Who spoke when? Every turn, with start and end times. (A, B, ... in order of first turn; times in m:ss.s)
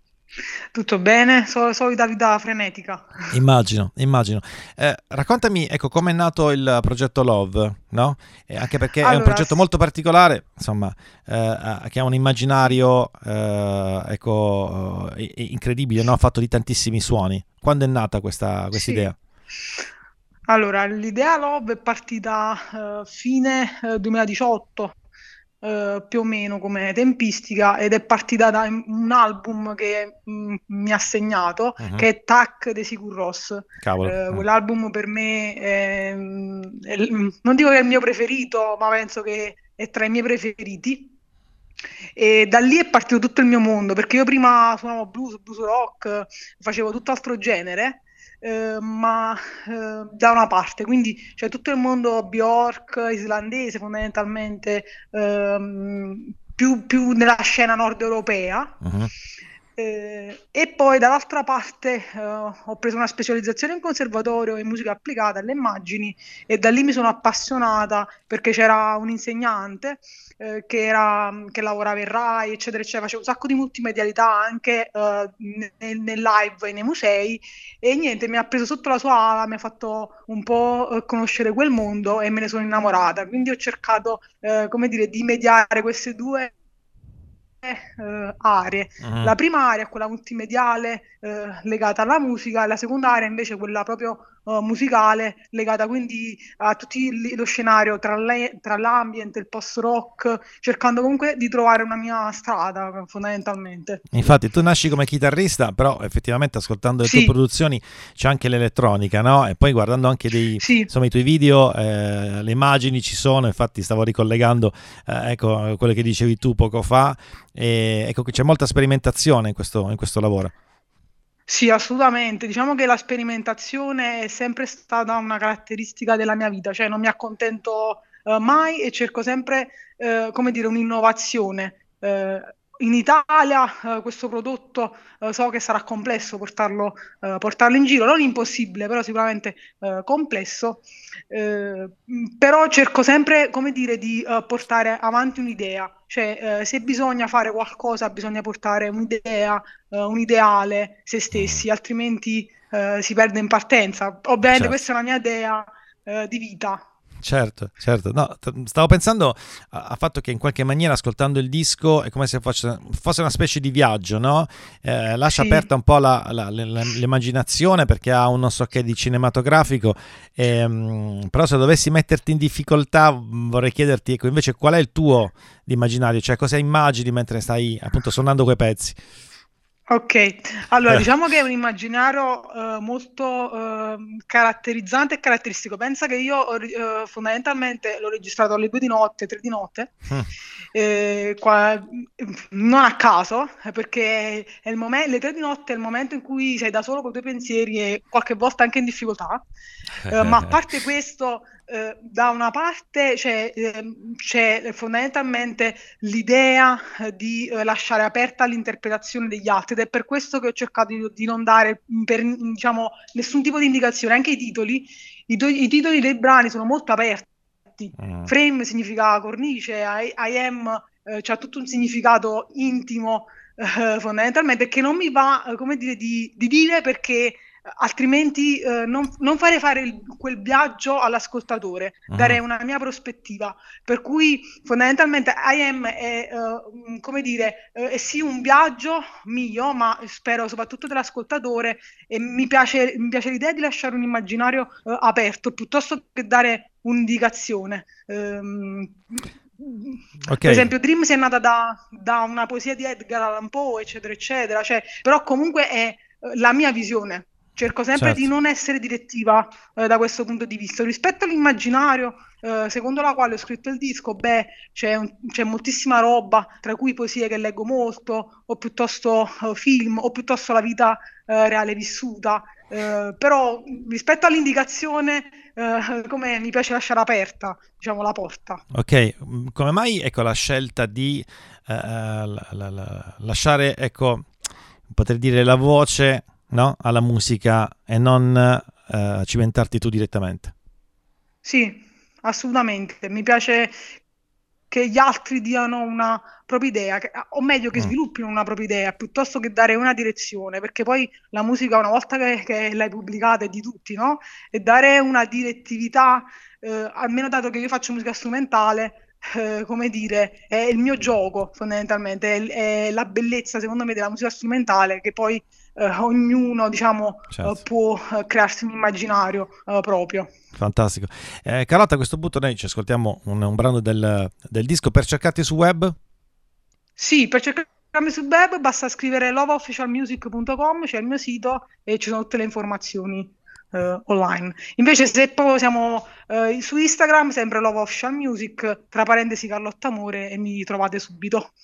0:00.7-0:03.3 A
0:03.3-0:19.2 B
0:09.0-0:09.6 A
0:18.7-0:19.0 A
0:20.5-0:25.0 A
0:25.6-0:41.1 A
0:31.8-0:32.0 B
0:33.8-0:34.4 B
0:42.2-0:58.8 A
0:58.8-0:59.1 B
0:59.8-1:26.5 A
1:27.6-1:44.0 A
1:29.0-1:29.3 B
1:44.1-2:00.5 B
1:47.0-1:47.3 A
1:50.6-1:50.9 A
2:01.5-2:36.8 A
2:31.3-2:31.6 B
2:34.5-2:34.7 B
2:37.2-2:59.0 B
2:45.3-2:45.7 A
2:59.9-3:09.9 A
3:10.7-3:19.4 A
3:20.1-4:38.6 A
3:20.1-3:20.5 B
3:38.0-3:38.3 B
3:52.1-3:52.4 B
4:10.3-4:10.7 B
4:18.0-4:18.3 B
4:38.7-4:44.3 B
4:44.9-4:50.5 B
4:51.4-4:53.9 A
4:54.7-5:20.3 A
5:17.3-5:17.6 B
5:20.5-5:25.9 B
5:27.0-5:41.5 A